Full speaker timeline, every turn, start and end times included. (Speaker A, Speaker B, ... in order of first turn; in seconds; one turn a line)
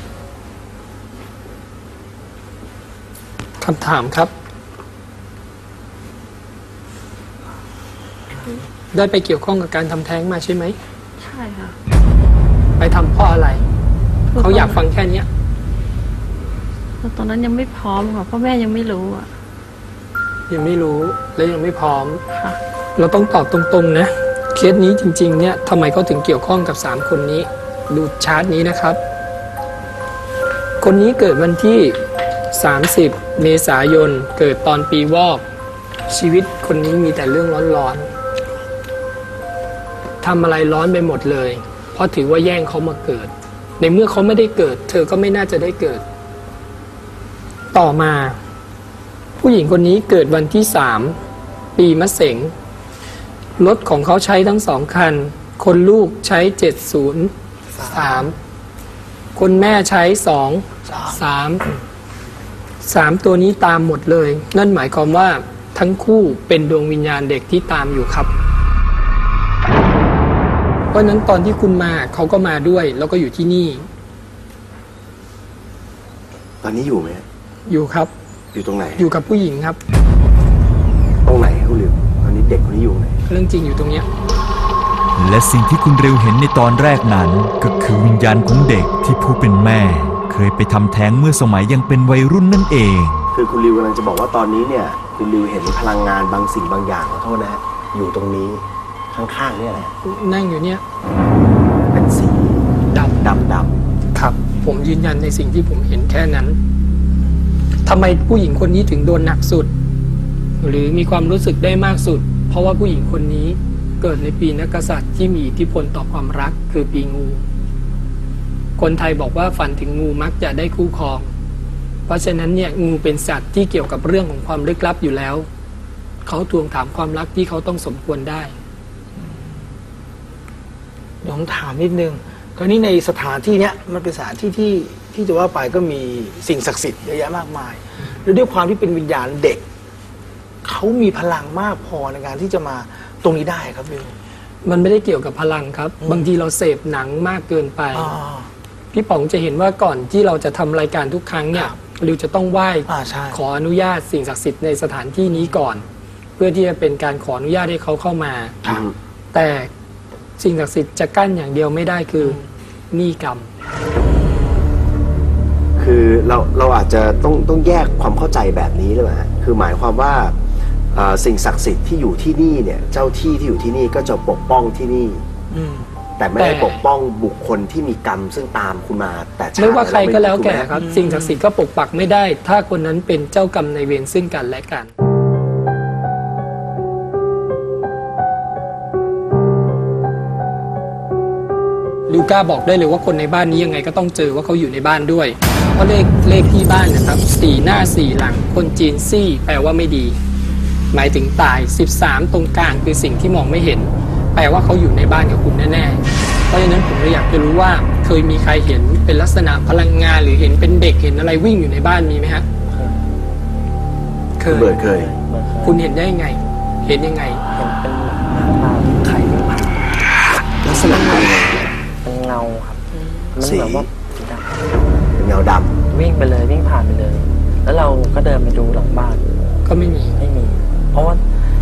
Speaker A: 3.6-4.3
Speaker A: 8.9-10.8
Speaker B: 11.2-11.8
Speaker A: 12.8-13.6
Speaker B: 14.3-14.8
Speaker A: 14.4-15.3
Speaker B: 17.0-19.3
Speaker A: 20.5-22.2
Speaker B: 22.3-22.6
Speaker A: 22.9-29.0
Speaker A: 30.8-35.4
Speaker A: 36.1-38.1
Speaker A: 40.2-46.0
Speaker A: 47.7-48.4
Speaker A: 49.4-51.2
Speaker A: 51.8-52.5
Speaker A: 53.6-57.3
Speaker A: 57.8-58.3
Speaker A: 59.4-61.7
Speaker C: 60.9-61.1
Speaker A: 62.8-68.3
Speaker A: 70.9-73.9
Speaker D: 76.6-77.2
Speaker A: 77.7-78.1
Speaker D: 78.5-79.0
Speaker A: 79.0-79.8
Speaker D: 81.2-83.2
Speaker A: 83.3-84.1
Speaker E: 85.2-93.3
Speaker D: 93.3-99.9
Speaker A: 100.0-100.8
Speaker D: 101.9-102.6
Speaker A: 102.9-103.2
Speaker D: 103.2-103.8
Speaker A: 104.1-106.6
Speaker A: 107.8-109.7
Speaker A: 110.6-117.4
Speaker A: 118.8-121.3
Speaker A: 122.1-125.5
Speaker A: 126.2-128.5
Speaker C: 129.2-129.6
Speaker C: 131.2-139.7
Speaker C: 140.6-144.2
Speaker A: 144.6-148.1
Speaker C: 147.9-148.5
Speaker A: 148.9-155.8
Speaker C: 152.9-153.4
Speaker A: 156.4-158.6
Speaker D: 158.6-158.9
Speaker A: 159.3-159.7
Speaker A: 160.4-162.4
Speaker A: 162.9-163.5
Speaker D: 165.8-170.3
Speaker D: 170.9-175.2
Speaker C: 175.5-175.9
Speaker D: 176.2-180.8
Speaker A: 176.4-176.8
Speaker A: 179.6-184.9
Speaker C: 180.8-181.4
Speaker A: 192.1-200.2
Speaker A: 200.9-212.4
Speaker F: 212.6-213.1
Speaker A: 214.4-214.8
Speaker D: 214.5-215.1
Speaker F: 214.8-215.8
Speaker A: 215.6-217.4
Speaker F: 217.5-220.0
Speaker D: 220.6-221.7
Speaker F: 222.0-224.9
Speaker D: 223.4-223.9
Speaker D: 225.2-225.8
Speaker F: 225.9-229.2
Speaker A: 229.6-230.2
Speaker F: 230.1-231.2